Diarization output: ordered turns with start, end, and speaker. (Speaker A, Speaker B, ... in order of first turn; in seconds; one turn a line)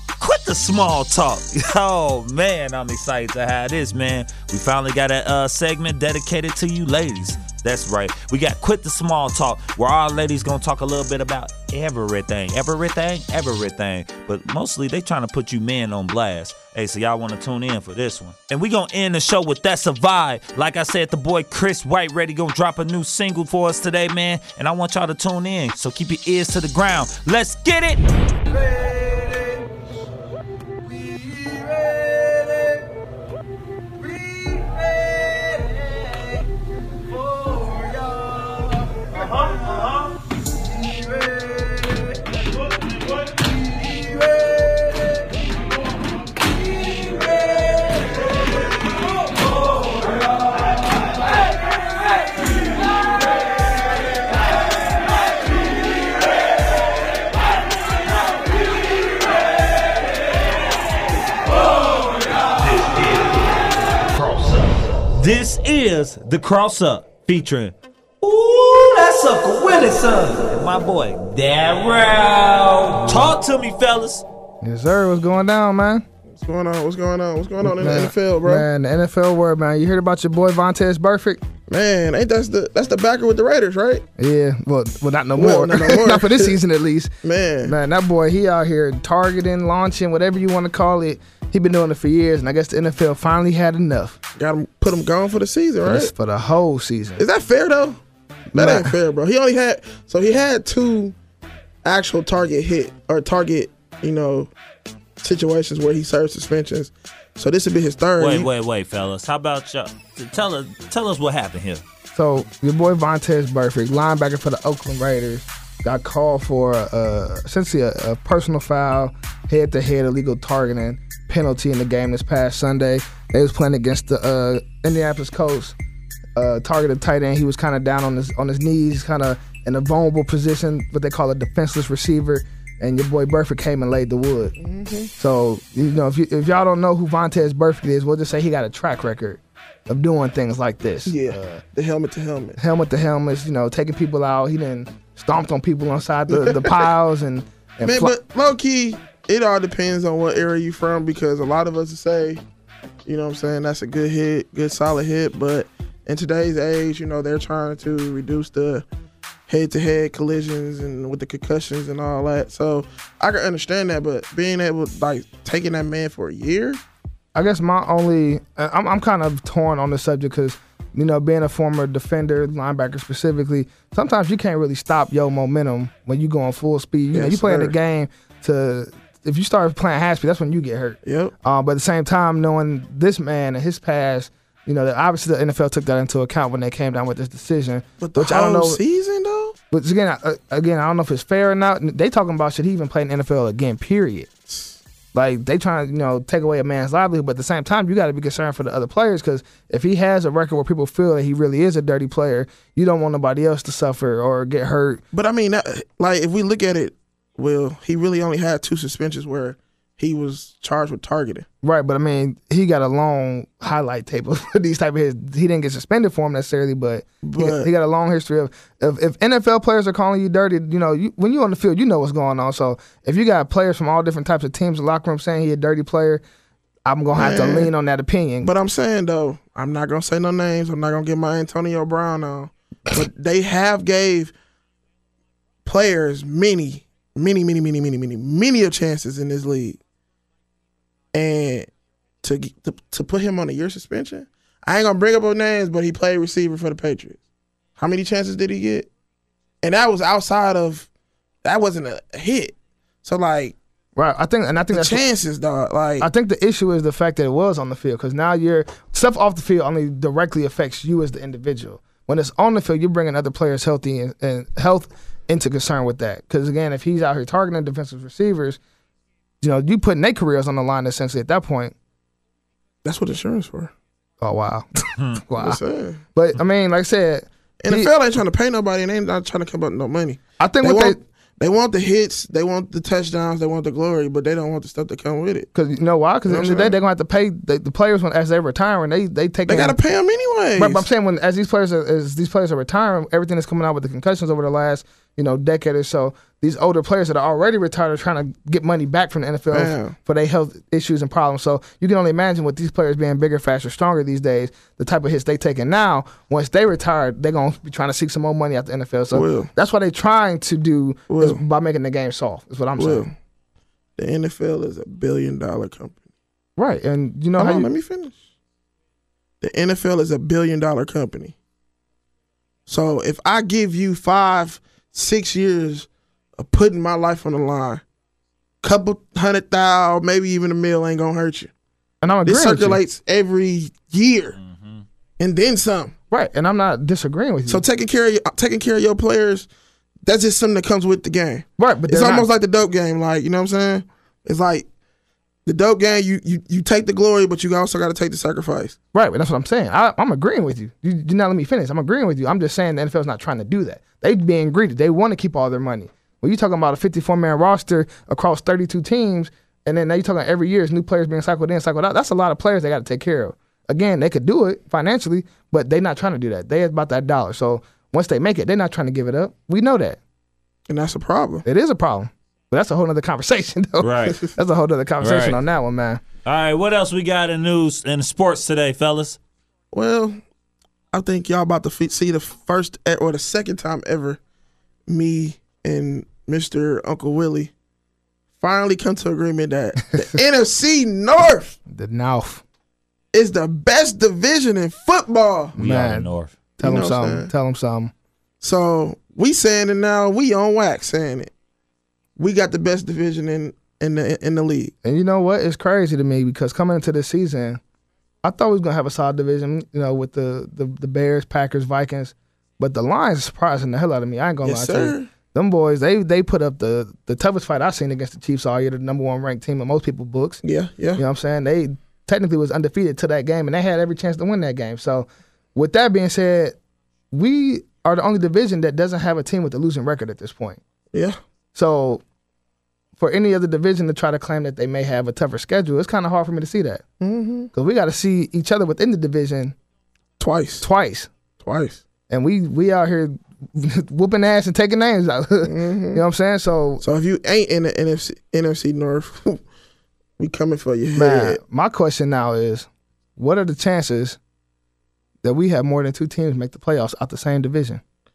Speaker A: 0.2-29.7
Speaker A: 30.9-32.8
Speaker A: 34.0-40.2
Speaker A: 41.0-45.2
Speaker A: 46.8-48.2
Speaker A: 48.8-50.5
Speaker A: 62.4-74.2
Speaker B: 74.6-76.1
Speaker C: 76.3-78.7
Speaker B: 77.6-81.4
Speaker C: 81.7-84.0
Speaker B: 84.2-87.1
Speaker C: 85.4-86.5
Speaker C: 87.2-87.8
Speaker B: 87.6-94.2
Speaker C: 94.4-96.1
Speaker B: 95.8-97.2
Speaker C: 97.2-98.0
Speaker B: 98.5-99.0
Speaker C: 98.5-101.2
Speaker C: 101.8-104.5
Speaker C: 105.2-108.5
Speaker A: 108.2-111.8
Speaker B: 112.2-125.8
Speaker B: 126.4-134.6
Speaker C: 134.6-135.1
Speaker B: 135.2-141.6
Speaker C: 141.1-142.6
Speaker B: 142.6-148.2
Speaker C: 146.3-146.9
Speaker C: 147.8-152.4
Speaker C: 153.1-158.9
Speaker C: 159.5-166.8
Speaker B: 167.3-188.8
Speaker C: 177.1-177.7
Speaker C: 181.1-181.3
Speaker C: 188.0-189.6
Speaker B: 189.7-194.3
Speaker C: 194.5-194.8
Speaker B: 195.1-205.0
Speaker C: 205.1-211.5
Speaker B: 211.6-226.2
Speaker C: 217.2-217.7
Speaker B: 226.8-228.5
Speaker C: 227.2-227.7
Speaker C: 228.4-234.3
Speaker C: 235.7-239.8
Speaker C: 241.1-241.7
Speaker C: 242.2-247.2
Speaker C: 247.8-248.9
Speaker C: 249.6-250.9
Speaker C: 251.4-253.6
Speaker B: 254.0-255.0
Speaker C: 254.7-256.1
Speaker B: 256.0-268.6
Speaker B: 269.4-271.7
Speaker C: 272.8-273.7
Speaker B: 274.2-275.6
Speaker A: 275.0-275.2
Speaker C: 275.4-276.0
Speaker B: 276.1-277.9
Speaker C: 277.6-285.5
Speaker B: 280.4-281.0
Speaker B: 285.5-289.8
Speaker C: 286.3-286.8
Speaker C: 289.5-290.9
Speaker B: 290.6-313.1
Speaker C: 299.5-300.0
Speaker C: 309.1-309.5
Speaker C: 311.1-311.4
Speaker C: 312.8-313.1
Speaker C: 314.0-316.0
Speaker B: 316.6-317.7
Speaker C: 317.4-318.2
Speaker C: 319.4-321.4
Speaker C: 322.7-327.8
Speaker C: 328.6-331.5
Speaker B: 332.0-332.8
Speaker C: 332.2-334.4
Speaker A: 334.4-334.9
Speaker C: 335.2-335.9
Speaker B: 336.1-337.7
Speaker C: 337.5-339.5
Speaker C: 340.1-344.7
Speaker B: 341.6-342.3
Speaker C: 345.5-348.8
Speaker B: 348.9-370.0
Speaker C: 370.7-371.4
Speaker B: 371.4-376.0
Speaker A: 373.8-374.2
Speaker A: 375.0-375.4
Speaker A: 376.2-379.2
Speaker C: 379.7-380.2
Speaker C: 380.9-384.2
Speaker C: 384.9-387.5
Speaker C: 388.4-391.6
Speaker B: 391.7-392.4
Speaker C: 393.1-395.6
Speaker B: 395.6-397.9
Speaker A: 395.6-396.4
Speaker C: 396.6-397.3
Speaker C: 398.4-401.3
Speaker C: 402.2-404.7
Speaker B: 404.8-407.6
Speaker B: 408.2-420.4
Speaker C: 414.4-415.1
Speaker C: 420.4-421.0
Speaker B: 421.0-426.6
Speaker B: 427.1-430.6
Speaker B: 431.6-432.0
Speaker B: 433.0-436.8
Speaker C: 437.0-437.5
Speaker B: 437.5-439.6
Speaker C: 440.2-440.6
Speaker B: 440.6-441.1
Speaker C: 441.4-441.8
Speaker B: 442.1-446.8
Speaker C: 445.5-446.0
Speaker C: 446.8-449.4
Speaker C: 450.2-451.4
Speaker B: 450.9-454.2
Speaker B: 455.2-457.8